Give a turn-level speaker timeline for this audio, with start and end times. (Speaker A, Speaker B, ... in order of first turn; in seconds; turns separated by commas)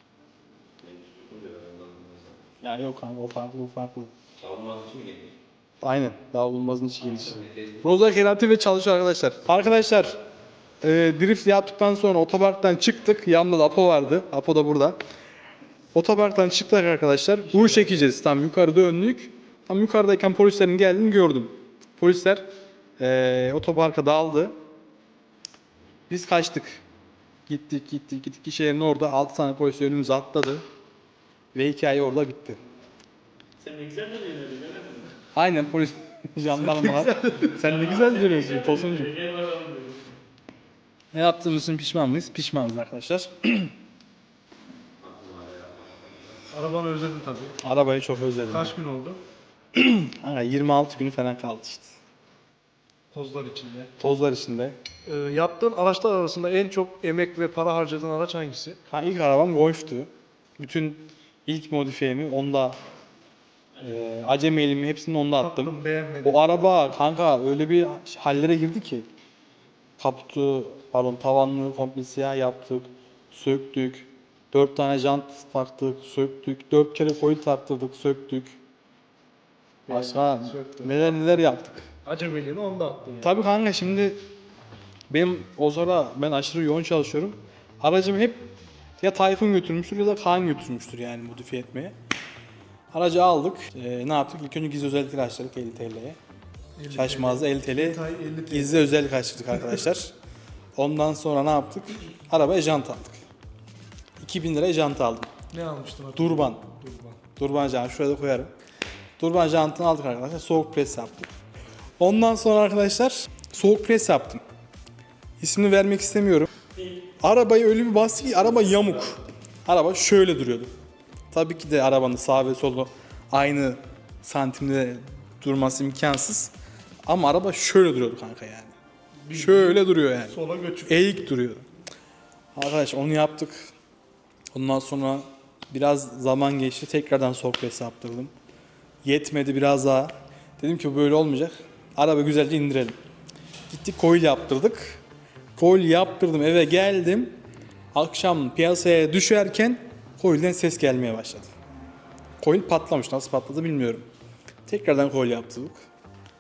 Speaker A: 0.8-2.4, Speaker B: 2.6-4.1, Speaker A: 4.4-5.3, Speaker B: 5.8-10.2, Speaker B: 10.8-15.0, Speaker B: 15.9-22.4, Speaker B: 23.0-24.5, Speaker B: 26.1-26.8, Speaker B: 27.5-30.6, Speaker B: 31.5-32.6, Speaker C: 33.6-35.1, Speaker B: 35.3-39.2, Speaker D: 36.7-37.5, Speaker C: 37.9-40.1, Speaker B: 41.1-43.7, Speaker A: 45.0-46.4, Speaker D: 46.5-47.6, Speaker B: 47.6-48.7, Speaker D: 48.5-49.2, Speaker B: 49.8-52.0, Speaker D: 53.1-53.9, Speaker B: 54.0-54.8, Speaker D: 55.1-58.8, Speaker B: 58.9-62.8, Speaker B: 63.8-65.7, Speaker D: 65.4-66.4, Speaker B: 66.2-69.1, Speaker B: 70.0-78.6, Speaker D: 79.9-80.9, Speaker B: 79.9-81.9, Speaker D: 82.1-83.3, Speaker B: 83.2-84.2, Speaker B: 85.1-92.0, Speaker B: 92.9-96.2, Speaker D: 96.8-99.1, Speaker B: 96.9-100.1, Speaker B: 100.8-103.2, Speaker B: 104.2-105.3, Speaker D: 105.5-107.2, Speaker B: 106.2-106.6, Speaker B: 107.4-108.5, Speaker B: 109.2-111.3, Speaker B: 112.0-114.4, Speaker B: 115.4-116.5, Speaker B: 117.2-120.7, Speaker B: 121.3-126.5, Speaker B: 127.1-128.8, Speaker D: 129.3-131.1, Speaker B: 129.3-130.3, Speaker B: 130.9-131.6, Speaker B: 132.6-133.7, Speaker B: 134.5-138.3, Speaker B: 139.0-143.0, Speaker B: 143.7-145.0, Speaker B: 145.6-147.3, Speaker B: 147.9-151.5, Speaker B: 152.4-154.1, Speaker B: 154.7-155.8